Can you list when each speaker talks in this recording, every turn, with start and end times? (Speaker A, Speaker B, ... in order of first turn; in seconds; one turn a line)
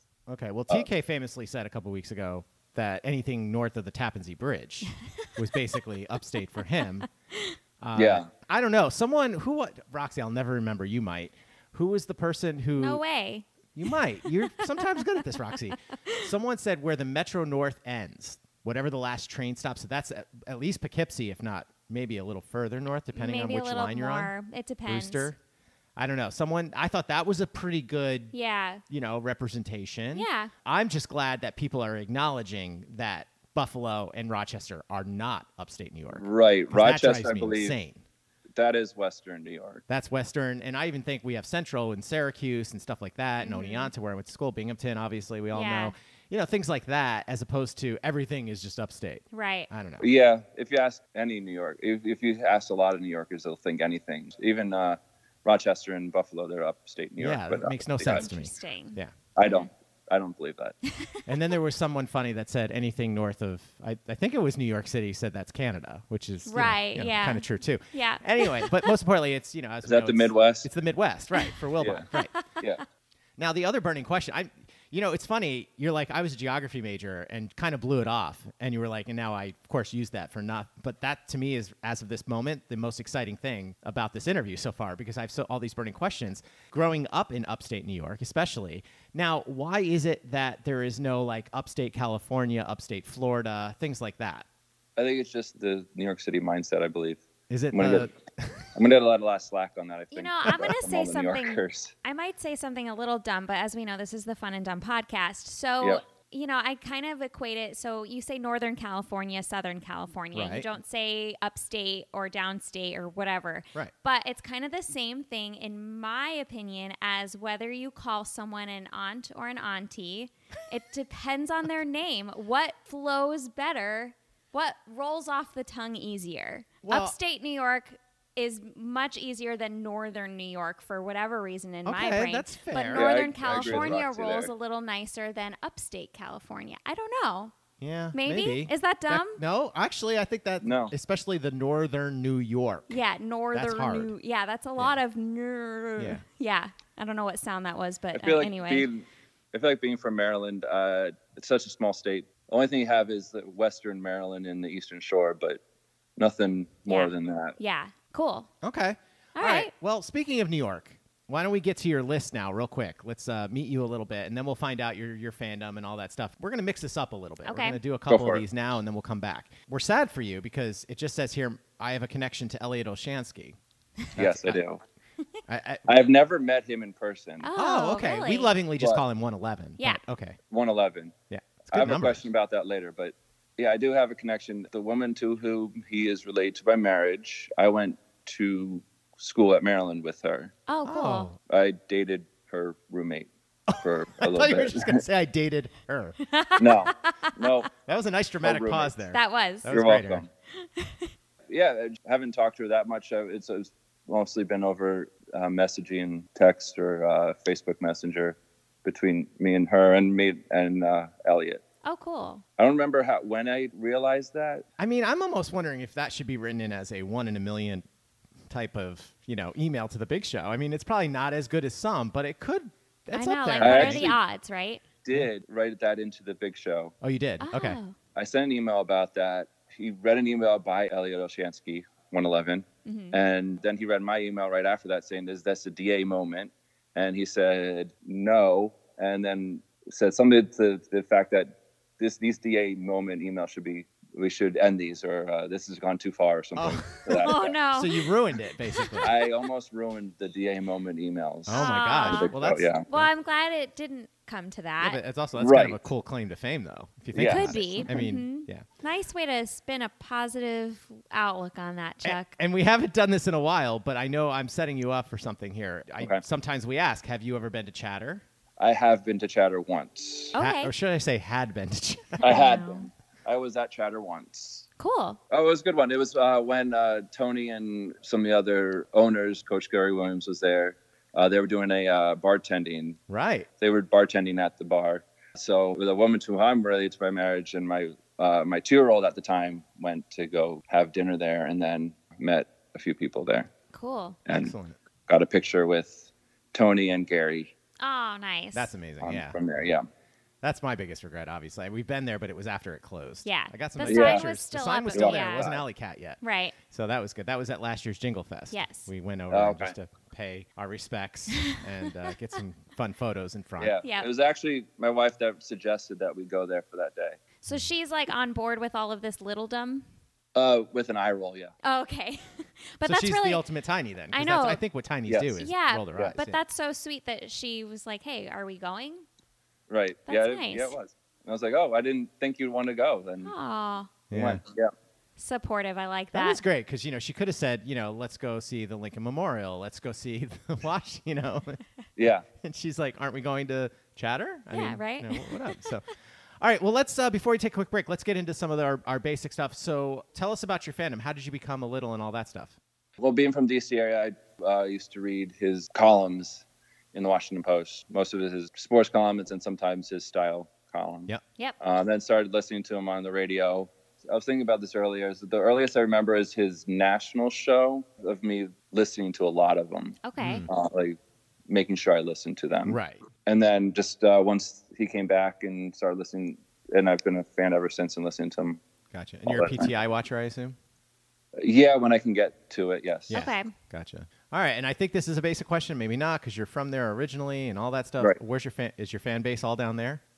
Speaker A: 0.3-7.1
Speaker A: 7.8-13.0
Speaker B: 8.0-8.3
Speaker C: 12.8-13.4
Speaker A: 13.8-24.3
Speaker C: 15.7-16.2
Speaker C: 23.1-25.4
Speaker A: 24.9-25.4
Speaker A: 25.9-28.4
Speaker C: 28.3-28.8
Speaker A: 28.9-38.0
Speaker C: 30.1-30.5
Speaker B: 36.1-37.7
Speaker B: 38.5-39.8
Speaker A: 39.9-50.1
Speaker C: 43.4-43.9
Speaker C: 45.5-45.9
Speaker C: 49.3-49.7
Speaker B: 50.0-58.3
Speaker A: 57.2-59.1
Speaker C: 58.1-59.7
Speaker B: 59.4-60.8
Speaker C: 60.9-61.2
Speaker A: 61.3-72.3
Speaker C: 66.5-68.9
Speaker B: 69.8-70.7
Speaker B: 71.8-72.1
Speaker C: 72.1-72.7
Speaker A: 73.4-94.5
Speaker B: 95.0-98.1
Speaker A: 97.5-98.7
Speaker B: 98.8-101.9
Speaker C: 100.1-137.5
Speaker A: 110.3-110.7
Speaker A: 126.8-127.1
Speaker A: 131.9-134.0
Speaker B: 132.9-134.5
Speaker A: 137.8-143.0
Speaker C: 138.1-139.4
Speaker B: 140.6-140.9
Speaker C: 142.9-148.9
Speaker A: 143.5-144.1
Speaker A: 146.0-146.2
Speaker B: 148.1-155.6
Speaker B: 156.2-157.6
Speaker C: 156.9-158.5
Speaker A: 158.6-173.6
Speaker C: 159.4-159.7
Speaker C: 167.4-167.8
Speaker B: 168.1-168.4
Speaker A: 174.2-174.6
Speaker B: 174.2-174.8
Speaker A: 175.5-175.8
Speaker B: 175.9-177.5
Speaker C: 177.4-178.5
Speaker A: 177.6-180.4
Speaker B: 180.5-181.1
Speaker A: 181.3-182.2
Speaker B: 181.7-190.5
Speaker C: 190.7-191.3
Speaker A: 190.8-191.4
Speaker B: 191.5-195.0
Speaker A: 193.7-196.2
Speaker C: 196.2-197.6
Speaker B: 196.6-197.7
Speaker A: 197.9-200.2
Speaker B: 198.4-198.9
Speaker C: 199.1-199.7
Speaker B: 199.7-200.3
Speaker C: 200.8-201.1
Speaker B: 201.5-211.6
Speaker C: 211.8-212.4
Speaker B: 212.6-214.6
Speaker A: 214.8-217.8
Speaker A: 218.5-224.2
Speaker C: 223.1-224.8
Speaker B: 223.6-224.2
Speaker B: 225.1-226.9
Speaker A: 227.0-227.8
Speaker C: 227.4-227.9
Speaker B: 228.1-247.6
Speaker C: 232.9-233.2
Speaker A: 246.6-249.1
Speaker C: 247.1-248.1
Speaker C: 248.8-249.1
Speaker B: 249.0-252.9
Speaker A: 251.5-253.1
Speaker C: 251.5-252.3
Speaker C: 252.9-255.0
Speaker A: 254.8-258.6
Speaker B: 255.4-255.8
Speaker B: 257.1-257.9
Speaker C: 257.2-262.3
Speaker A: 262.0-268.2
Speaker B: 268.6-270.4
Speaker C: 270.4-270.7
Speaker A: 270.4-272.4
Speaker B: 272.2-274.7
Speaker C: 272.3-272.8
Speaker C: 274.8-275.2
Speaker B: 275.3-283.0
Speaker A: 283.1-283.5
Speaker B: 283.6-293.5
Speaker C: 293.7-294.2
Speaker B: 294.3-294.5
Speaker A: 294.3-294.8
Speaker B: 295.1-297.5
Speaker C: 297.8-298.7
Speaker A: 298.5-299.4
Speaker B: 299.0-299.9
Speaker A: 300.4-313.8
Speaker C: 303.2-305.5
Speaker B: 303.9-304.2
Speaker B: 304.9-305.6
Speaker C: 306.2-306.6
Speaker C: 308.5-308.9
Speaker B: 309.3-309.7
Speaker B: 313.6-317.2
Speaker C: 313.8-314.1
Speaker C: 317.4-319.9
Speaker B: 320.4-321.5
Speaker C: 321.6-323.4
Speaker A: 322.8-326.4
Speaker C: 324.1-324.6
Speaker B: 325.1-325.3
Speaker C: 325.4-329.1
Speaker B: 329.7-333.3
Speaker C: 330.1-330.8
Speaker C: 333.2-334.0
Speaker A: 334.1-334.4
Speaker B: 334.1-334.7
Speaker C: 335.2-336.4
Speaker A: 336.1-341.6
Speaker B: 342.0-342.3
Speaker A: 342.4-345.9
Speaker C: 344.5-345.6
Speaker A: 346.4-352.6
Speaker B: 353.0-371.0
Speaker C: 370.0-370.4
Speaker A: 370.2-370.5
Speaker B: 371.5-378.6
Speaker A: 372.6-373.0
Speaker A: 378.9-380.6
Speaker B: 379.3-379.7
Speaker B: 381.4-383.2
Speaker A: 383.1-390.0
Speaker C: 383.1-383.5